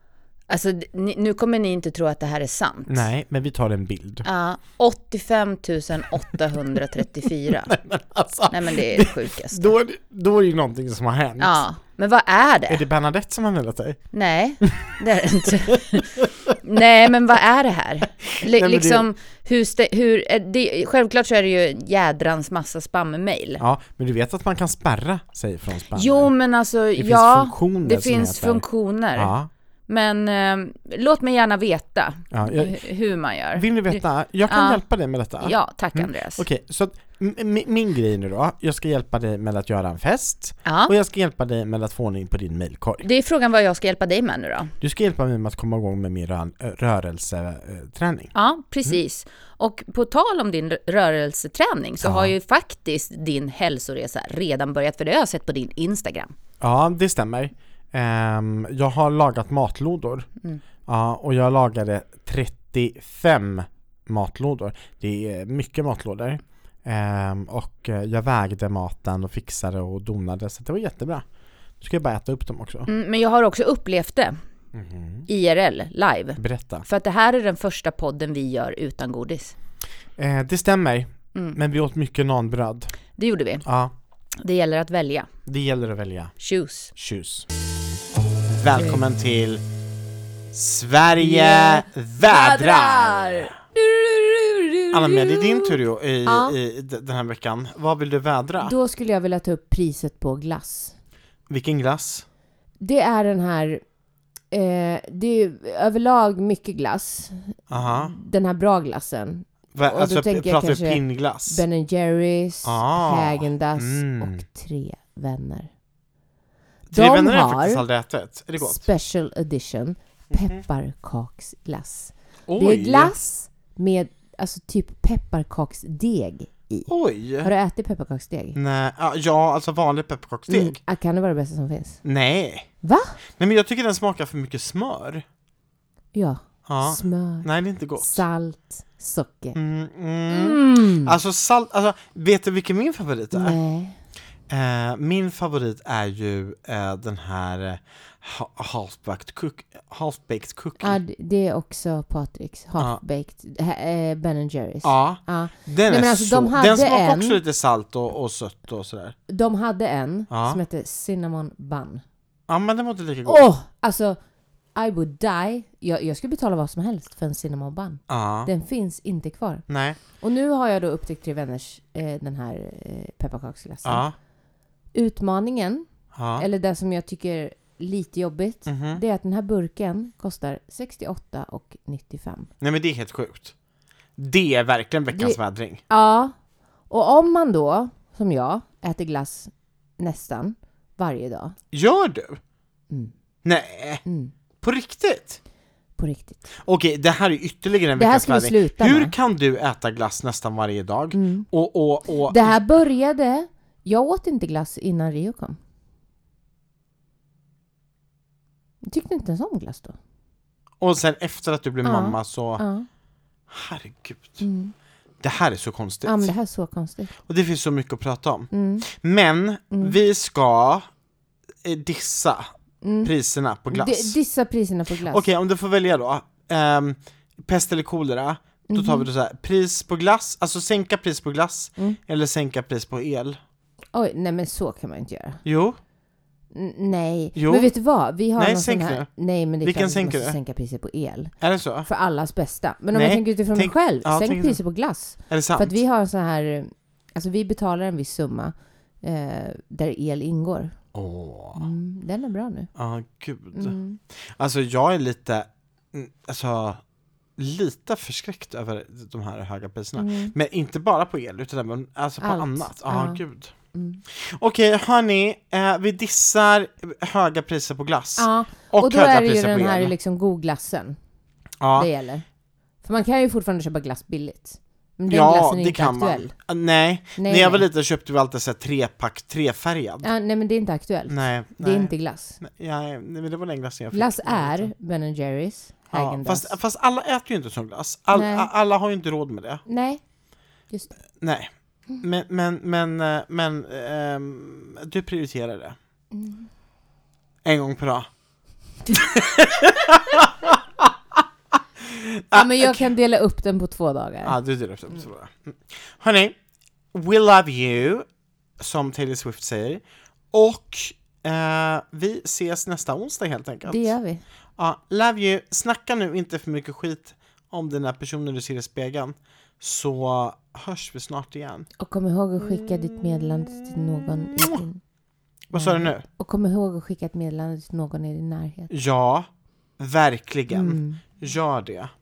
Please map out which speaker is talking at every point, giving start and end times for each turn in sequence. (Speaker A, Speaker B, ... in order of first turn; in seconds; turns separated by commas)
Speaker A: 0.5-3.1, Speaker B: 2.9-4.3, Speaker A: 4.2-7.7, Speaker B: 7.5-11.6, Speaker A: 8.5-9.7, Speaker A: 11.4-12.8, Speaker B: 12.7-14.0, Speaker A: 14.1-23.6, Speaker B: 14.6-14.9, Speaker B: 15.5-16.5, Speaker B: 18.4-19.1, Speaker B: 23.6-26.3, Speaker A: 25.9-29.3, Speaker B: 27.0-28.6, Speaker B: 29.2-29.5, Speaker A: 29.9-34.8, Speaker B: 32.3-32.8, Speaker B: 33.5-43.1, Speaker A: 35.4-36.4, Speaker A: 40.6-40.9, Speaker A: 43.0-44.7, Speaker B: 44.8-48.3, Speaker A: 48.3-56.3, Speaker B: 52.0-52.4, Speaker B: 56.6-60.3, Speaker B: 60.9-71.2, Speaker B: 71.8-72.9, Speaker A: 72.9-74.4, Speaker B: 74.7-75.3, Speaker A: 75.3-79.5, Speaker B: 76.4-76.8, Speaker B: 80.2-82.9, Speaker A: 83.2-83.6, Speaker B: 83.6-83.9, Speaker A: 84.4-85.3, Speaker B: 85.5-86.3, Speaker A: 86.4-86.9, Speaker B: 87.0-87.5, Speaker B: 88.5-89.6, Speaker B: 90.5-93.5, Speaker A: 91.2-95.8, Speaker B: 94.9-98.8, Speaker C: 96.2-96.5, Speaker C: 98.6-101.0, Speaker B: 101.5-102.3, Speaker C: 102.8-103.8, Speaker C: 104.5-115.7, Speaker B: 107.7-108.2, Speaker B: 109.8-111.6, Speaker B: 112.6-114.4, Speaker B: 116.9-118.8, Speaker C: 116.9-117.8, Speaker C: 118.6-126.9, Speaker B: 120.3-120.6, Speaker B: 122.5-123.2, Speaker B: 126.9-127.5, Speaker C: 127.4-128.6, Speaker B: 128.6-130.8, Speaker C: 130.5-132.0, Speaker B: 132.0-132.7, Speaker C: 132.8-133.2, Speaker B: 133.4-135.2, Speaker C: 136.1-139.6, Speaker B: 136.7-138.2, Speaker B: 139.5-143.6, Speaker C: 140.3-141.1, Speaker C: 143.3-144.0, Speaker B: 144.5-151.0, Speaker C: 150.8-157.4, Speaker B: 154.8-159.2, Speaker C: 159.3-162.0, Speaker B: 160.3-160.6, Speaker B: 162.5-163.4, Speaker C: 163.3-164.2, Speaker C: 164.8-174.1, Speaker B: 168.1-168.5, Speaker B: 169.7-170.0, Speaker B: 173.8-174.1, Speaker C: 174.9-175.8, Speaker B: 176.1-176.4, Speaker C: 176.4-182.5, Speaker B: 178.7-179.0, Speaker B: 182.6-183.5, Speaker B: 184.2-185.8, Speaker C: 185.1-186.3, Speaker C: 186.9-191.6, Speaker B: 191.7-192.4, Speaker B: 193.4-194.0, Speaker C: 194.1-194.3, Speaker B: 194.6-195.4, Speaker C: 196.0-196.5, Speaker B: 196.6-202.6, Speaker C: 198.0-199.1, Speaker C: 201.1-201.5, Speaker C: 202.3-205.6, Speaker C: 208.8-210.0, Speaker B: 210.8-212.6, Speaker C: 211.8-212.9, Speaker B: 213.5-214.4, Speaker C: 214.4-214.7, Speaker B: 215.2-216.4, Speaker C: 216.1-217.1, Speaker B: 217.3-220.9, Speaker C: 218.5-218.9, Speaker B: 221.6-222.5, Speaker C: 222.8-223.1, Speaker B: 223.0-224.2, Speaker C: 223.7-225.2, Speaker B: 225.1-233.4, Speaker C: 228.7-229.1, Speaker C: 233.9-235.4, Speaker B: 235.4-235.8, Speaker C: 236.5-241.3, Speaker B: 237.3-237.7, Speaker B: 238.4-239.1, Speaker B: 239.6-240.4, Speaker B: 241.4-241.9, Speaker C: 241.8-250.8, Speaker B: 242.9-244.6, Speaker B: 245.3-245.8, Speaker B: 250.9-251.7, Speaker C: 251.6-252.7, Speaker B: 252.8-256.8, Speaker C: 253.5-254.0, Speaker B: 257.4-263.5, Speaker C: 260.0-260.3, Speaker C: 262.2-263.2, Speaker C: 263.7-264.0, Speaker B: 264.1-269.9, Speaker C: 268.2-271.0, Speaker B: 271.6-271.9, Speaker C: 271.8-272.2, Speaker C: 272.8-276.3, Speaker B: 275.1-280.1, Speaker C: 277.2-277.6, Speaker C: 280.0-282.4, Speaker B: 281.1-284.7, Speaker C: 283.9-286.6, Speaker B: 285.9-289.6, Speaker C: 288.1-288.5, Speaker C: 289.7-290.0, Speaker B: 291.2-295.8, Speaker C: 296.1-296.5, Speaker B: 297.4-298.1, Speaker B: 298.9-301.2, Speaker B: 301.8-302.9, Speaker C: 302.3-304.4, Speaker B: 304.2-306.4, Speaker B: 306.9-308.1, Speaker B: 308.6-313.9, Speaker C: 313.7-314.2, Speaker B: 314.6-321.7, Speaker C: 321.8-324.8, Speaker B: 324.4-324.6, Speaker B: 325.5-326.0, Speaker C: 325.5-328.7, Speaker B: 328.7-331.9, Speaker C: 330.5-331.0